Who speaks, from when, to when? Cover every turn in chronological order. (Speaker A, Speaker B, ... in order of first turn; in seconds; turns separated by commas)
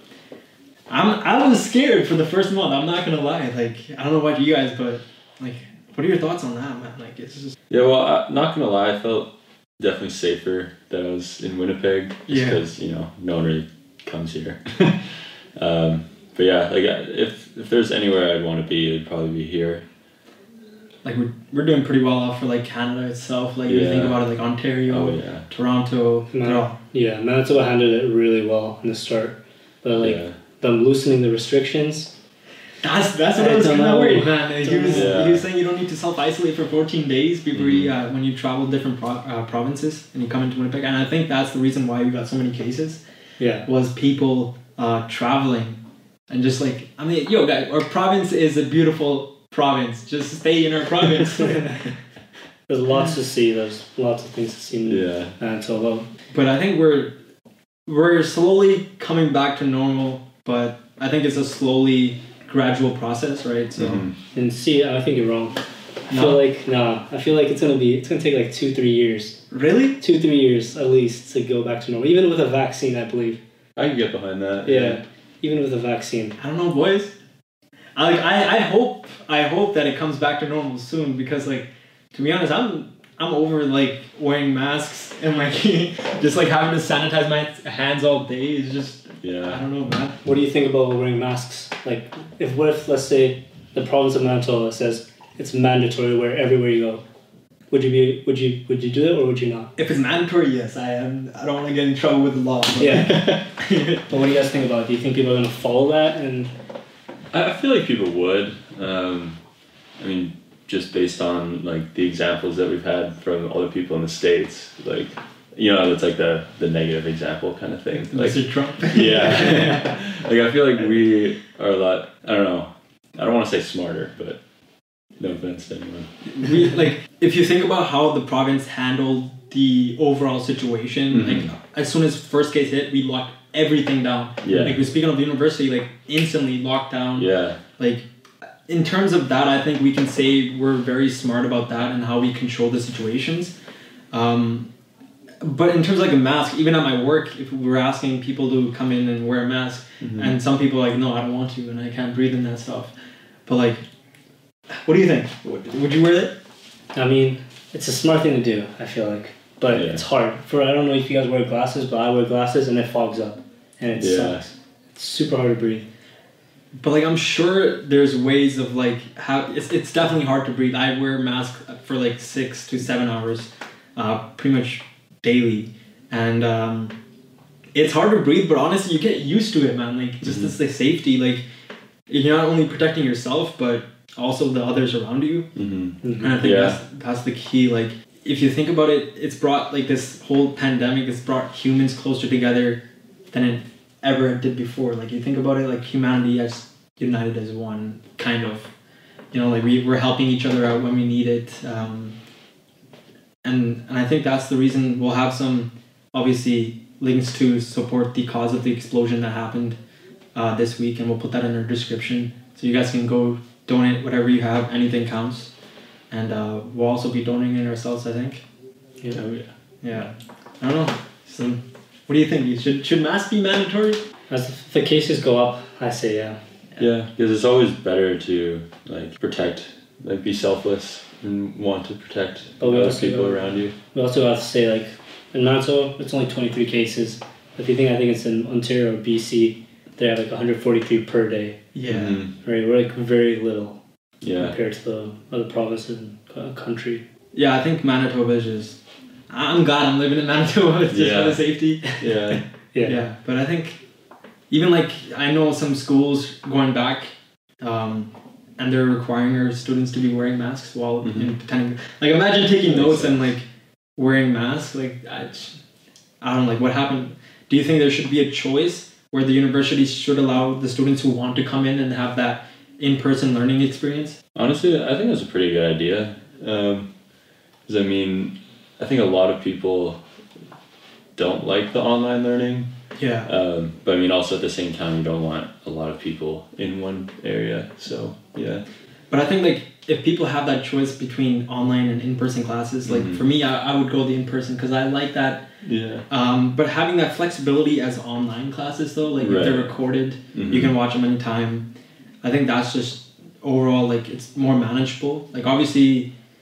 Speaker A: 0.9-7.6, Speaker B: 7.7-19.8, Speaker A: 12.3-12.6, Speaker A: 21.0-26.8, Speaker B: 23.7-24.2, Speaker B: 24.9-25.4, Speaker C: 26.3-32.1, Speaker B: 30.0-30.4, Speaker A: 32.8-43.0, Speaker C: 33.4-35.2, Speaker B: 34.9-35.5, Speaker B: 37.5-37.9, Speaker C: 43.4-43.7, Speaker A: 43.6-45.8, Speaker A: 46.3-51.9, Speaker C: 52.7-56.1, Speaker B: 54.9-55.3, Speaker A: 56.3-57.1, Speaker A: 57.9-64.0, Speaker B: 63.8-64.2, Speaker C: 64.3-69.4, Speaker A: 66.1-66.4, Speaker A: 69.5-70.0, Speaker C: 70.0-73.4, Speaker B: 73.8-75.0, Speaker C: 74.7-76.4, Speaker A: 76.4-77.1, Speaker A: 78.0-90.2, Speaker B: 89.2-89.6, Speaker C: 90.2-97.0, Speaker C: 97.7-99.7, Speaker A: 99.8-104.0, Speaker C: 102.8-103.5, Speaker C: 104.1-106.5, Speaker B: 107.3-109.4, Speaker B: 110.0-124.4, Speaker A: 118.1-120.0, Speaker B: 125.2-126.1, Speaker A: 126.3-138.1, Speaker B: 131.1-131.5, Speaker B: 134.4-134.8, Speaker B: 137.2-137.6, Speaker A: 138.7-143.5, Speaker A: 144.1-144.7, Speaker A: 145.4-152.9, Speaker B: 150.0-150.3, Speaker A: 153.5-153.8, Speaker A: 154.7-156.3, Speaker C: 156.9-165.9, Speaker B: 159.7-160.0, Speaker B: 164.0-164.4, Speaker A: 166.7-176.9, Speaker A: 177.7-181.4, Speaker B: 180.2-180.5, Speaker A: 182.1-185.5, Speaker B: 185.6-186.8, Speaker C: 186.0-186.4, Speaker A: 186.2-198.7, Speaker A: 199.3-202.2, Speaker A: 203.4-209.8, Speaker A: 210.3-215.5, Speaker A: 216.1-218.4, Speaker B: 219.1-219.5, Speaker A: 219.8-224.0, Speaker C: 224.3-226.4, Speaker B: 226.8-233.7, Speaker C: 232.6-241.6, Speaker A: 241.8-242.2, Speaker B: 241.9-242.3, Speaker C: 242.4-243.8, Speaker B: 244.2-244.6, Speaker C: 244.4-247.0, Speaker A: 247.3-248.8, Speaker A: 249.3-253.8, Speaker B: 250.9-251.4, Speaker B: 252.0-252.4, Speaker C: 252.7-253.0, Speaker A: 254.5-263.5, Speaker B: 261.0-261.3, Speaker B: 262.7-263.3, Speaker A: 264.0-265.6, Speaker A: 266.2-274.2, Speaker B: 274.4-276.9, Speaker B: 277.7-280.0, Speaker B: 281.2-282.7, Speaker A: 283.0-283.3, Speaker B: 283.2-288.6, Speaker A: 289.1-295.4, Speaker B: 292.9-293.2, Speaker B: 295.6-296.1, Speaker A: 296.1-301.7, Speaker B: 299.2-299.7, Speaker B: 300.3-300.7, Speaker A: 302.2-306.1